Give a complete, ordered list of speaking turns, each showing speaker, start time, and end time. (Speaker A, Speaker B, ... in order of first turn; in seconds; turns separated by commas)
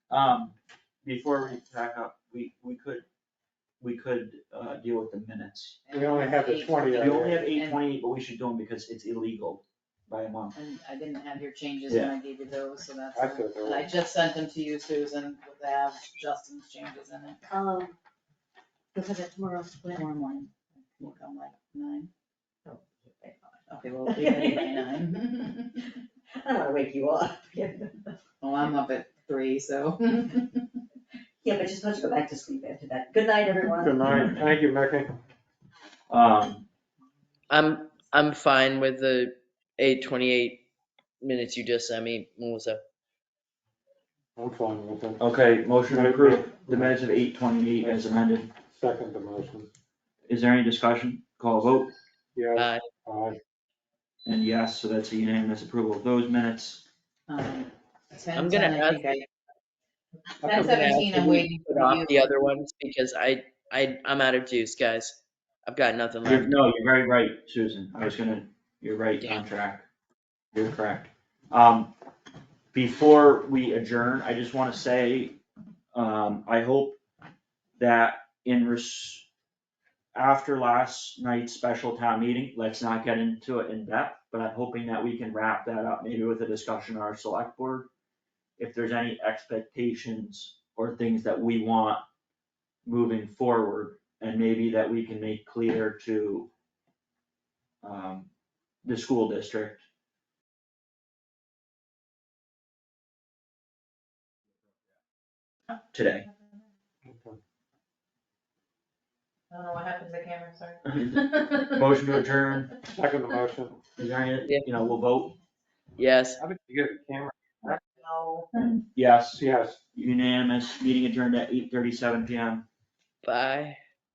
Speaker A: 0.1-3.0, Speaker A: 3.8-5.8, Speaker B: 5.8-7.8, Speaker C: 5.9-7.4, Speaker A: 7.0-10.5, Speaker B: 10.5-17.4, Speaker C: 13.1-13.9, Speaker D: 17.5-17.9, Speaker D: 18.9-20.2, Speaker B: 19.9-22.1, Speaker D: 22.6-24.8, Speaker B: 23.7-25.8, Speaker D: 26.3-28.1, Speaker B: 28.4-30.5, Speaker D: 31.4-34.0, Speaker C: 33.7-35.2, Speaker A: 34.0-34.6, Speaker A: 36.1-36.6, Speaker E: 37.5-40.6, Speaker E: 41.2-42.8, Speaker C: 44.4-45.2, Speaker A: 45.2-48.5, Speaker C: 45.9-47.0, Speaker C: 47.8-48.1, Speaker C: 48.7-49.7, Speaker A: 50.3-51.9, Speaker C: 52.3-53.4, Speaker E: 52.5-52.8, Speaker A: 54.2-56.8, Speaker B: 57.3-59.2, Speaker E: 58.3-59.2, Speaker B: 60.4-62.3, Speaker E: 60.4-66.5, Speaker A: 66.2-69.8, Speaker A: 70.5-71.9, Speaker A: 72.7-75.4, Speaker A: 75.9-77.0, Speaker A: 77.8-79.3, Speaker A: 80.1-87.9, Speaker A: 88.6-92.0, Speaker A: 92.8-96.5, Speaker A: 97.8-98.3, Speaker A: 98.8-99.8, Speaker A: 105.9-106.2, Speaker C: 107.0-107.4, Speaker B: 109.5-111.8, Speaker A: 110.8-112.7, Speaker C: 112.9-113.8, Speaker A: 114.0-115.4, Speaker E: 116.0-116.4, Speaker C: 116.4-117.8, Speaker B: 117.6-118.5, Speaker A: 118.8-119.4, Speaker C: 119.4-119.8, Speaker A: 119.9-122.6, Speaker E: 123.2-123.8